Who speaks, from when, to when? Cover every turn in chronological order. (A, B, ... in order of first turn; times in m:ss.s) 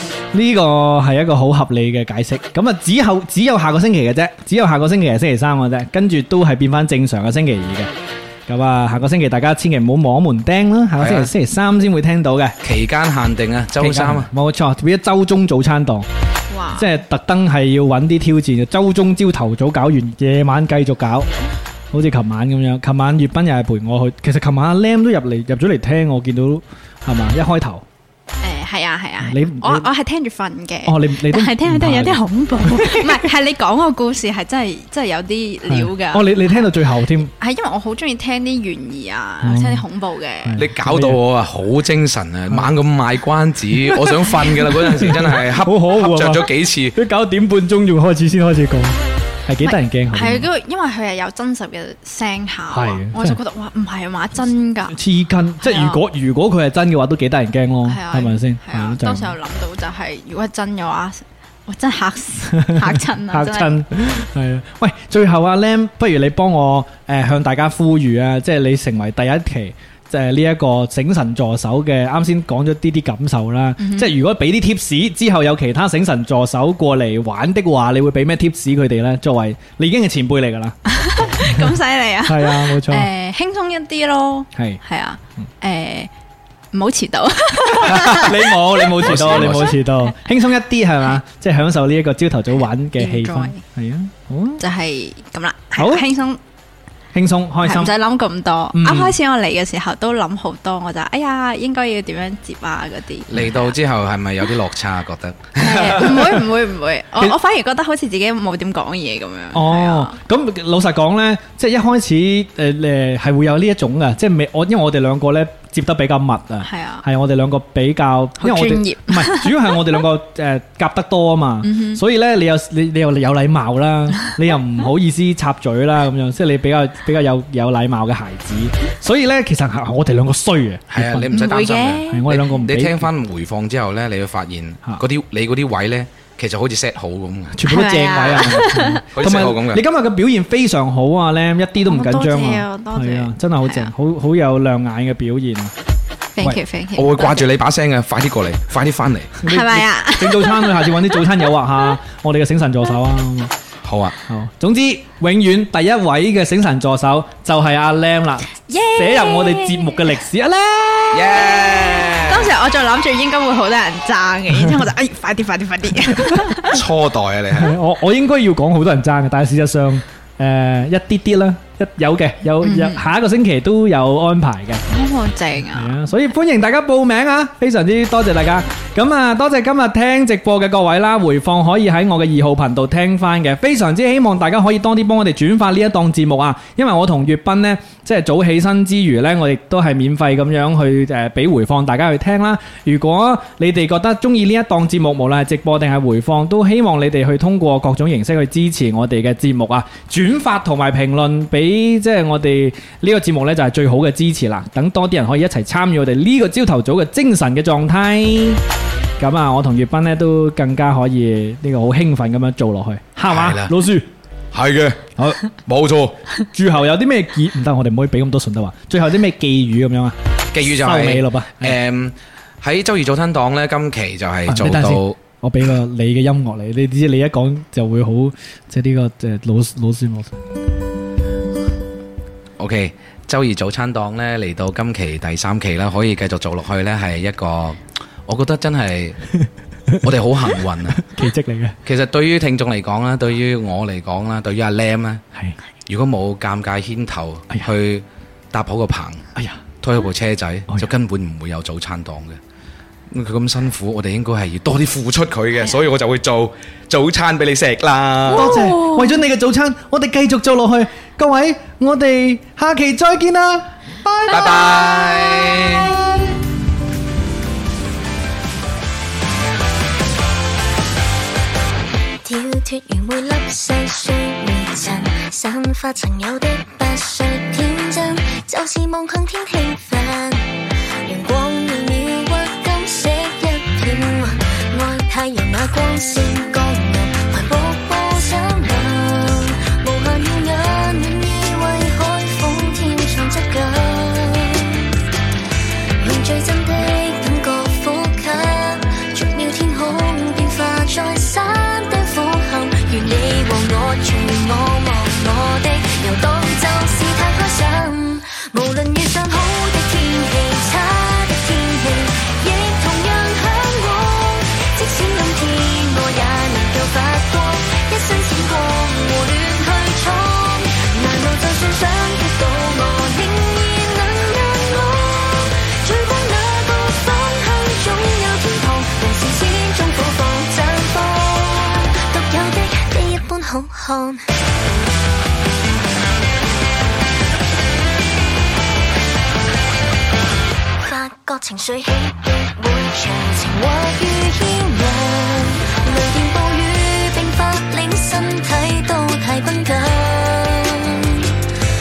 0:00.3-0:07.9 A
0:08.5-0:12.5 A
0:11.0-0:11.3 B
0:12.6-0:14.3 B
0:13.8-0:16.0 A
0:16.5-0:16.9 C
0:16.7-0:21.3 A
0:21.9-0:27.8 A
0:28.4-0:36.5 C
0:29.2-0:29.9 A
0:30.8-0:33.3 A
0:35.7-0:37.3 A
0:37.2-0:40.6 C
0:39.4-0:39.8 A
0:40.4-0:41.2 A
0:40.6-0:47.0 B
0:43.9-0:50.5 A
0:49.6-0:55.0 C
0:52.7-0:53.4 A
0:54.9-0:59.4 A
0:55.6-0:56.0 C
0:57.8-1:03.7 C
1:02.5-1:21.7 A
1:13.8-1:14.1 C
1:20.9-1:26.1 C
1:22.2-1:23.1 A
1:26.7-1:29.6 C
1:27.6-1:34.6 A
1:29.0-1:29.8 B
1:33.0-1:33.6 C
1:34.6-1:36.4 C
1:35.8-1:36.1 A
1:37.1-1:38.0 A
1:37.6-1:43.7 C
1:38.7-1:39.2 A
1:43.3-1:46.1 B
1:45.6-1:50.2 C
1:45.6-1:46.4 A
1:49.5-2:11.5 A
1:56.6-1:57.0 C
1:58.4-1:59.8 C
2:01.6-2:02.0 C
2:10.9-2:17.6 B
2:11.3-2:12.4 C
2:12.1-2:13.1 A
2:17.5-2:25.7 A
2:17.6-2:19.0 C
2:19.1-2:19.8 B
2:21.8-2:23.9 C
2:26.3-2:27.4 C
2:27.0-2:29.4 B
2:29.4-2:33.5 A
2:29.4-2:31.2 C
2:33.8-2:34.2 B
2:34.3-2:41.7 A
2:38.7-2:40.0 C
2:41.1-2:42.5 B
2:42.0-2:46.8 C
2:46.7-2:47.7 B
2:47.5-2:54.8 A
2:52.6-2:53.0 C
2:54.9-2:56.0 C
2:55.7-3:28.6 A
3:29.2-3:34.1 A
3:33.3-3:33.7 B
3:34.5-3:36.2 B
3:36.5-3:41.8 A
3:40.5-3:45.2 B
3:44.5-3:50.4 A
3:52.6-3:59.2 B
3:59.3-4:00.1 A
4:00.0-4:01.0 B
4:00.8-4:01.8 A
4:01.8-4:05.2 B
4:05.9-4:09.2 B
4:09.3-4:09.6 A
4:09.8-4:12.4 B
4:13.1-4:18.5 B
4:18.3-4:26.4 A
4:18.3-4:19.2 C
4:24.3-4:25.9 B
4:32.2-4:40.5 D
4:41.0-4:54.8 D
4:56.0-5:34.2 D
5:40.8-5:51.2 D